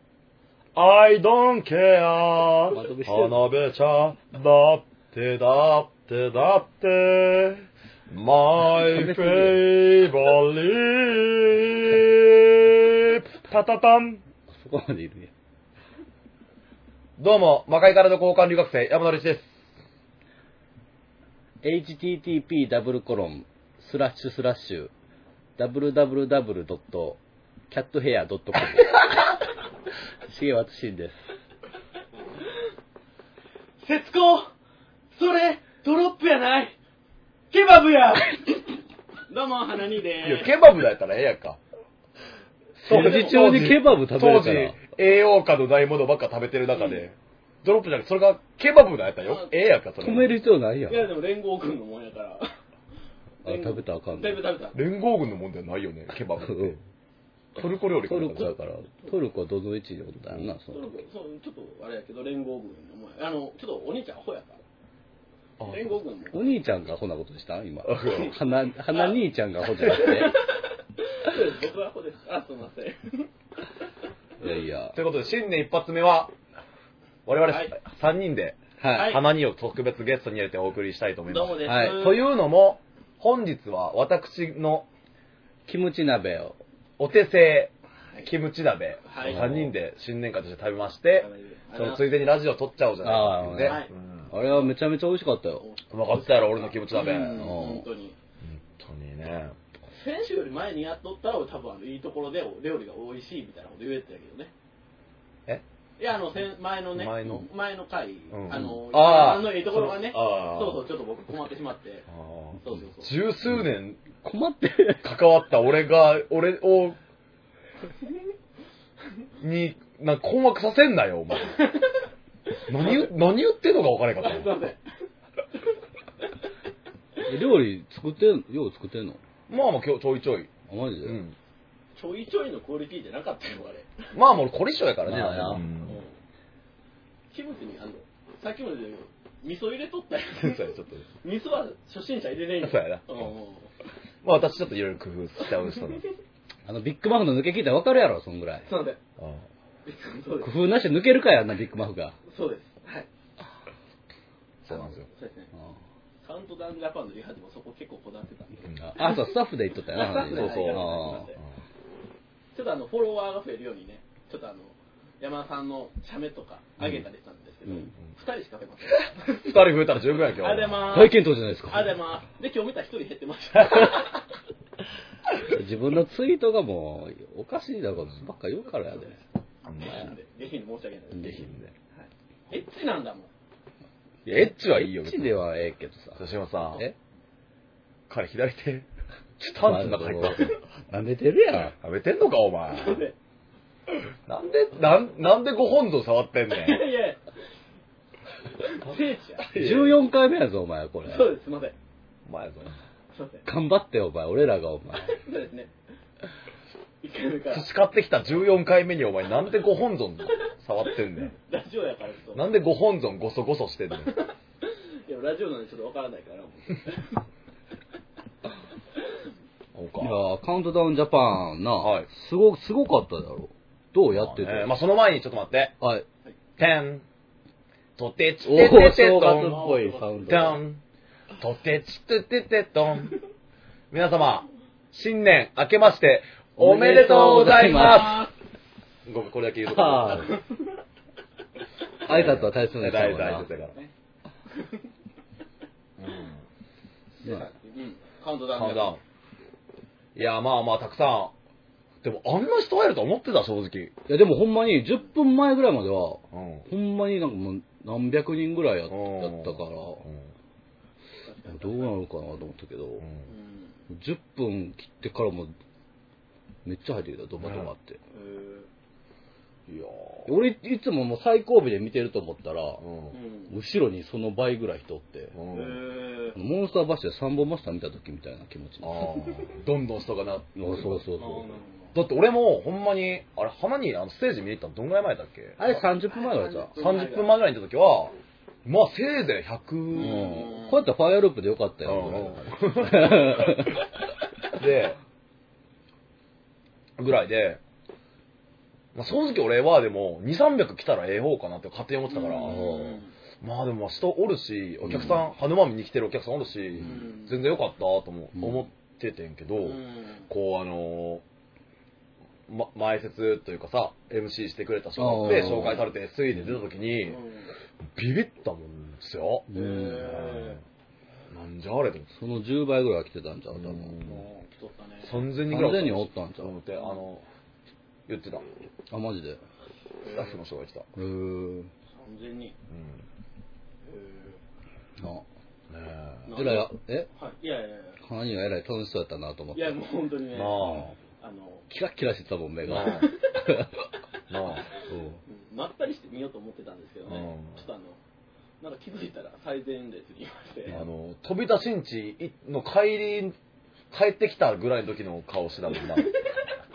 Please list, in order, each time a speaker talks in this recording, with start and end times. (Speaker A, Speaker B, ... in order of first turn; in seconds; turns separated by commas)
Speaker A: 0.7-14.2, Speaker B: 2.7-3.4, Speaker B: 8.8-9.6, Speaker B: 14.5-15.3, Speaker A: 17.2-19.6, Speaker B: 21.6-24.9, Speaker B: 25.6-27.2, Speaker B: 27.7-29.4, Speaker B: 30.3-31.2, Speaker C: 33.8-34.5, Speaker C: 35.1-36.7, Speaker C: 37.5-38.8, Speaker C: 39.3-40.5, Speaker A: 40.2-41.6, Speaker A: 42.8-50.3, Speaker B: 42.8-44.8, Speaker C: 42.9-43.3, Speaker C: 49.2-49.5, Speaker B: 50.0-51.1, Speaker C: 50.9-52.5, Speaker B: 53.4-54.4, Speaker C: 53.4-54.8, Speaker A: 54.7-56.8, Speaker B: 56.4-56.8, Speaker A: 57.5-58.5, Speaker B: 58.0-61.0, Speaker A: 60.2-60.5, Speaker C: 60.7-64.6, Speaker A: 65.6-65.8, Speaker C: 65.6-66.5, Speaker B: 66.3-70.4, Speaker A: 67.8-68.3, Speaker C: 68.1-68.3, Speaker C: 68.9-69.1, Speaker C: 69.8-73.3, Speaker B: 74.4-75.0, Speaker A: 74.9-76.3, Speaker A: 77.2-84.9, Speaker C: 77.5-77.8, Speaker B: 78.8-79.1, Speaker C: 78.8-79.2, Speaker C: 81.3-82.3, Speaker B: 81.6-82.0, Speaker B: 85.7-86.6, Speaker A: 87.0-87.7, Speaker A: 88.2-94.3, Speaker C: 89.0-89.5, Speaker B: 89.2-89.7, Speaker C: 91.2-92.1, Speaker B: 93.0-95.6, Speaker C: 93.6-94.7, Speaker C: 95.6-98.2, Speaker A: 95.9-97.5, Speaker B: 97.3-97.9, Speaker A: 98.4-99.5, Speaker C: 99.9-104.5, Speaker C: 106.0-112.1, Speaker A: 106.9-107.5, Speaker A: 108.3-110.8, Speaker A: 112.1-114.0, Speaker C: 112.6-113.1, Speaker B: 114.2-115.0, Speaker A: 115.0-117.0, Speaker A: 119.4-121.6, Speaker C: 121.5-121.9, Speaker A: 122.7-124.5, Speaker C: 122.8-123.0, Speaker C: 124.2-124.8, Speaker B: 127.2-129.2, Speaker A: 129.5-130.5, Speaker B: 130.7-131.2, Speaker A: 131.0-131.3, Speaker C: 131.9-134.1, Speaker A: 134.1-136.0, Speaker B: 135.0-135.6, Speaker C: 135.8-136.1, Speaker C: 137.3-140.7, Speaker A: 140.3-141.1, Speaker C: 141.2-143.7, Speaker A: 142.6-143.3, Speaker A: 144.2-146.0, Speaker B: 146.7-148.7, Speaker C: 148.7-149.0, Speaker A: 149.2-149.4, Speaker C: 149.8-150.5, Speaker B: 150.4-152.2, Speaker C: 152.2-153.1, Speaker A: 154.6-155.1, Speaker C: 154.7-155.5, Speaker C: 156.2-159.2, Speaker B: 158.8-161.3, Speaker C: 159.9-161.4, Speaker A: 160.3-160.9, Speaker C: 162.5-169.6, Speaker A: 169.3-171.0, Speaker C: 170.4-174.2, Speaker B: 170.9-172.0, Speaker B: 175.4-179.2, Speaker C: 178.9-179.2, Speaker A: 179.7-180.1, Speaker C: 179.8-183.3, Speaker B: 181.2-181.4, Speaker A: 181.3-181.7, Speaker A: 184.2-185.3, Speaker B: 184.3-186.2, Speaker A: 186.2-186.8, Speaker A: 188.1-188.9, Speaker A: 189.4-190.5, Speaker B: 189.6-191.7, Speaker A: 191.5-193.0, Speaker C: 192.7-193.1, Speaker A: 194.3-196.8, Speaker C: 196.5-197.2, Speaker C: 198.6-200.0, Speaker B: 199.5-201.3, Speaker C: 201.1-201.8, Speaker A: 202.2-202.8, Speaker C: 203.1-203.4, Speaker B: 203.4-205.2, Speaker C: 205.0-205.7, Speaker C: 207.0-207.7, Speaker A: 207.5-211.3, Speaker C: 211.4-212.4, Speaker A: 212.3-214.1, Speaker C: 214.1-217.2, Speaker A: 219.7-220.2, Speaker B: 220.0-224.7, Speaker A: 221.8-222.1, Speaker A: 224.1-225.8, Speaker A: 226.6-227.0, Speaker A: 228.0-229.7, Speaker B: 228.4-230.6, Speaker C: 229.4-230.5, Speaker A: 230.2-230.8, Speaker A: 231.4-233.1, Speaker A: 233.9-238.3, Speaker B: 236.6-238.3, Speaker C: 237.7-238.3, Speaker A: 239.1-240.3, Speaker B: 239.7-240.3, Speaker B: 242.0-243.5, Speaker A: 242.1-243.7, Speaker C: 243.3-243.9, Speaker C: 244.5-244.8, Speaker A: 246.0-246.4, Speaker C: 247.2-249.0, Speaker A: 248.5-249.0, Speaker A: 250.1-251.3, Speaker A: 252.0-253.9, Speaker B: 254.1-260.0, Speaker A: 256.3-256.7, Speaker A: 258.9-260.2, Speaker C: 261.2-261.9, Speaker B: 261.5-263.1, Speaker C: 263.3-263.7, Speaker B: 263.9-265.5, Speaker B: 266.6-268.0, Speaker A: 267.4-267.7, Speaker C: 268.1-268.7, Speaker A: 269.7-270.3, Speaker B: 270.2-272.8, Speaker A: 272.8-273.1, Speaker C: 273.1-273.5, Speaker B: 273.5-275.3, Speaker A: 275.3-275.8, Speaker C: 275.5-276.4, Speaker B: 276.3-279.1, Speaker A: 278.8-281.0, Speaker B: 280.6-281.5, Speaker C: 281.2-281.9, Speaker A: 281.9-285.8, Speaker B: 285.6-286.7, Speaker C: 286.1-287.4, Speaker A: 286.8-290.3, Speaker C: 289.9-290.7, Speaker B: 289.9-293.8, Speaker A: 291.8-293.7, Speaker A: 294.6-295.0, Speaker A: 297.0-297.6, Speaker A: 298.9-302.6, Speaker C: 302.1-303.1, Speaker B: 302.4-303.0, Speaker A: 303.4-311.2, Speaker B: 304.8-305.2, Speaker C: 306.8-307.3, Speaker B: 308.4-308.6, Speaker C: 309.6-310.3, Speaker A: 312.5-317.2, Speaker B: 315.0-315.9, Speaker C: 317.0-317.5, Speaker A: 317.8-319.5, Speaker B: 319.5-320.4, Speaker C: 319.5-320.6, Speaker A: 320.0-320.6, Speaker A: 321.3-322.1, Speaker B: 322.1-324.0, Speaker A: 323.5-324.2, Speaker C: 324.0-325.2, Speaker A: 325.0-327.2, Speaker B: 325.5-326.5, Speaker A: 328.1-328.4, Speaker B: 328.9-329.4, Speaker C: 330.0-330.3, Speaker A: 330.1-330.9, Speaker B: 330.9-331.7, Speaker C: 331.9-332.6, Speaker A: 332.7-333.0, Speaker C: 333.8-334.4, Speaker B: 335.0-335.2, Speaker A: 335.7-336.3, Speaker C: 336.3-338.0, Speaker B: 336.3-337.1, Speaker B: 338.0-339.8, Speaker C: 339.5-341.7, Speaker A: 340.3-340.9, Speaker B: 341.7-343.7, Speaker A: 342.6-343.1, Speaker A: 344.3-345.2, Speaker C: 345.3-348.0, Speaker A: 347.1-347.6, Speaker C: 348.6-350.8, Speaker A: 350.7-353.3, Speaker A: 353.9-356.1, Speaker C: 355.9-356.5